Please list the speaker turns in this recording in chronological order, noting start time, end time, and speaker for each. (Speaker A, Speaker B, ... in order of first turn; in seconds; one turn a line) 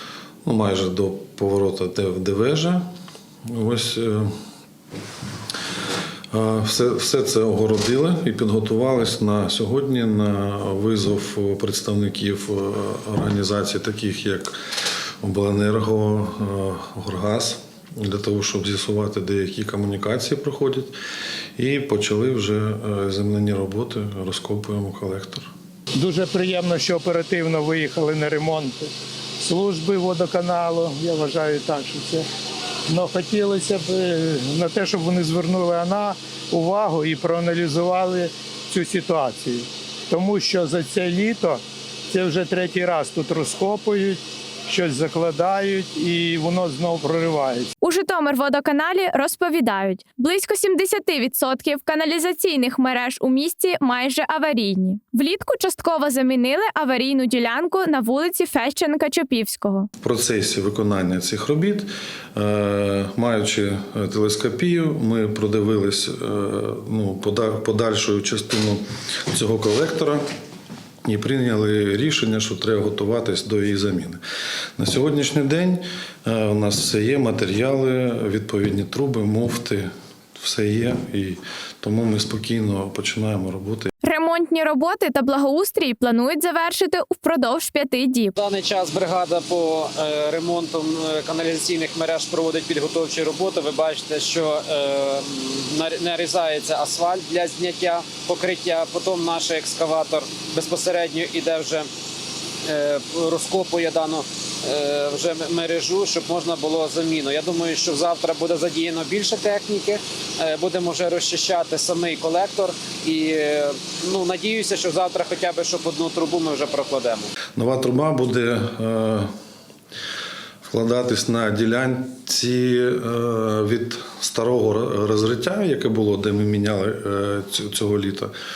Speaker A: 0.5-2.8
Speaker A: 3.5-4.3
Speaker A: 6.3-14.6
Speaker A: 15.2-20.9
Speaker A: 21.6-25.5
Speaker B: 25.9-32.2
Speaker B: 32.9-47.7
Speaker C: 47.8-59.9
Speaker A: 60.0-70.2
Speaker A: 71.0-74.2
Speaker A: 74.8-83.9
Speaker C: 84.0-88.3
Speaker D: 88.4-101.9
Speaker D: 102.7-117.3
Speaker A: 117.6-119.3
Speaker A: 120.7-128.3